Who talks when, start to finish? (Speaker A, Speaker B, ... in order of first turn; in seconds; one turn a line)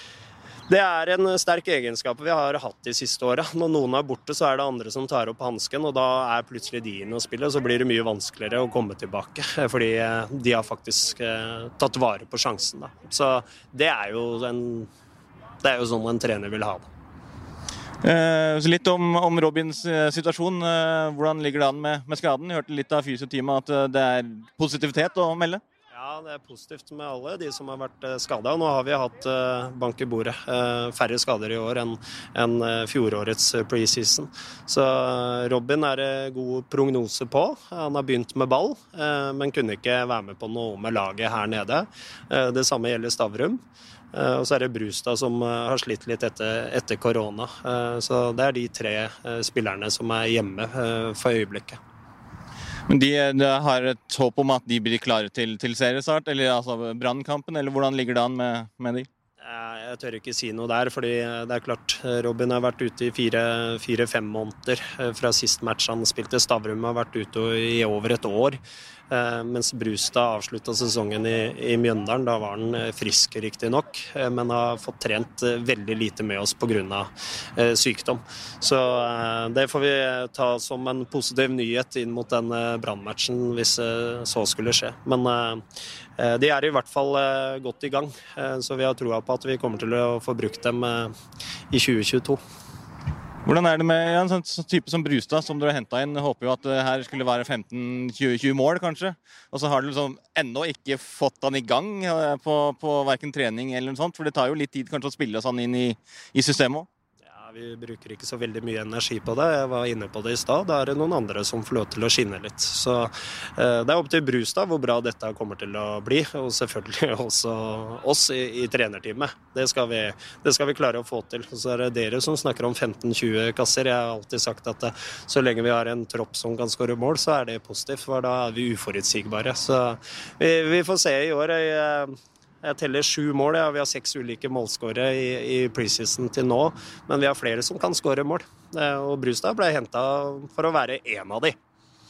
Speaker A: 0.7-14.9
Speaker A: 15.6-16.9
Speaker B: 18.0-25.6
Speaker A: 25.9-43.6
Speaker A: 44.1-51.8
Speaker B: 52.9-59.1
Speaker A: 59.4-85.6
Speaker A: 86.2-91.1
Speaker A: 91.7-92.4
Speaker B: 93.4-106.9
Speaker A: 107.2-141.6